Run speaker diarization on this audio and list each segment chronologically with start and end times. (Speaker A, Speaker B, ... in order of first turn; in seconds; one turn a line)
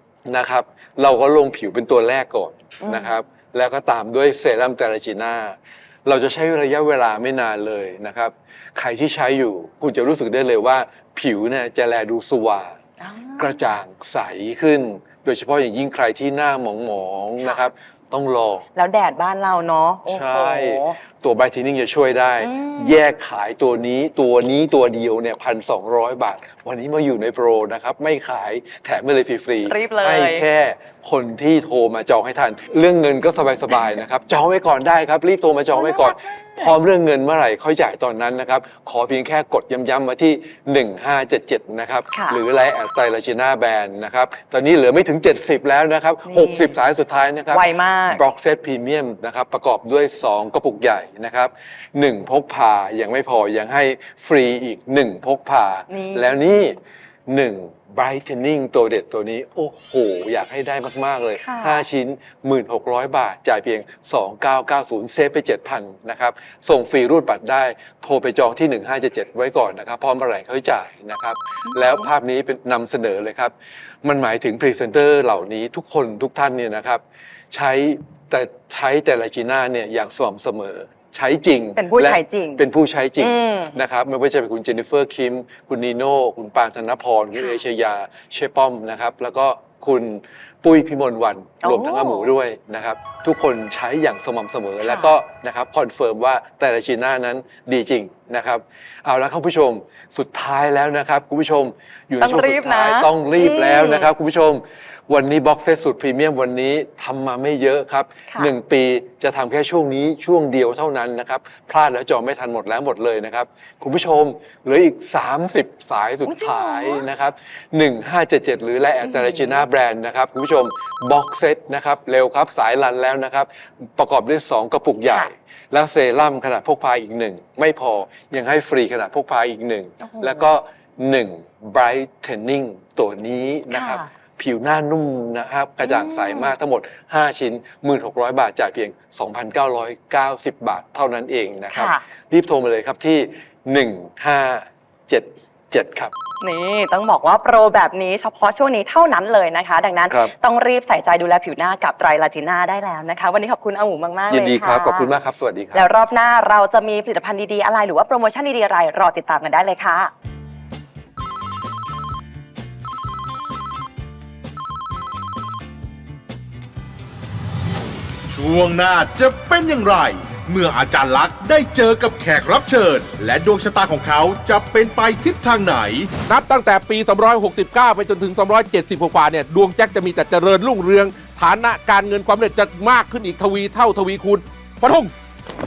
Speaker A: 0.2-12.8
Speaker B: 2.8-3.1
Speaker B: 13.0-13.8
Speaker A: 13.4-18.6
Speaker B: 17.4-17.6
Speaker B: 18.8-21.0
Speaker A: 20.1-56.8
Speaker B: 22.4-23.0
Speaker B: 29.6-30.4
Speaker B: 35.7-36.7
Speaker B: 42.1-42.4
Speaker B: 46.2-46.8
Speaker B: 47.5-48.2
Speaker B: 55.9-56.4
Speaker A: 57.3-146.1
Speaker B: 61.3-61.8
Speaker B: 71.7-72.1
Speaker B: 81.8-82.6
Speaker B: 83.2-83.8
Speaker B: 87.3-87.6
Speaker B: 91.6-92.3
Speaker B: 94.8-95.2
Speaker B: 102.2-104.1
Speaker B: 116.2-117.0
Speaker B: 119.0-119.6
Speaker B: 130.0-130.5
Speaker B: 133.7-134.1
Speaker B: 135.8-136.5
Speaker B: 141.7-142.0
Speaker B: 146.4-155.1
Speaker A: 154.3-155.9
Speaker B: 155.7-160.1
Speaker C: 168.3-176.1
Speaker D: 176.2-185.1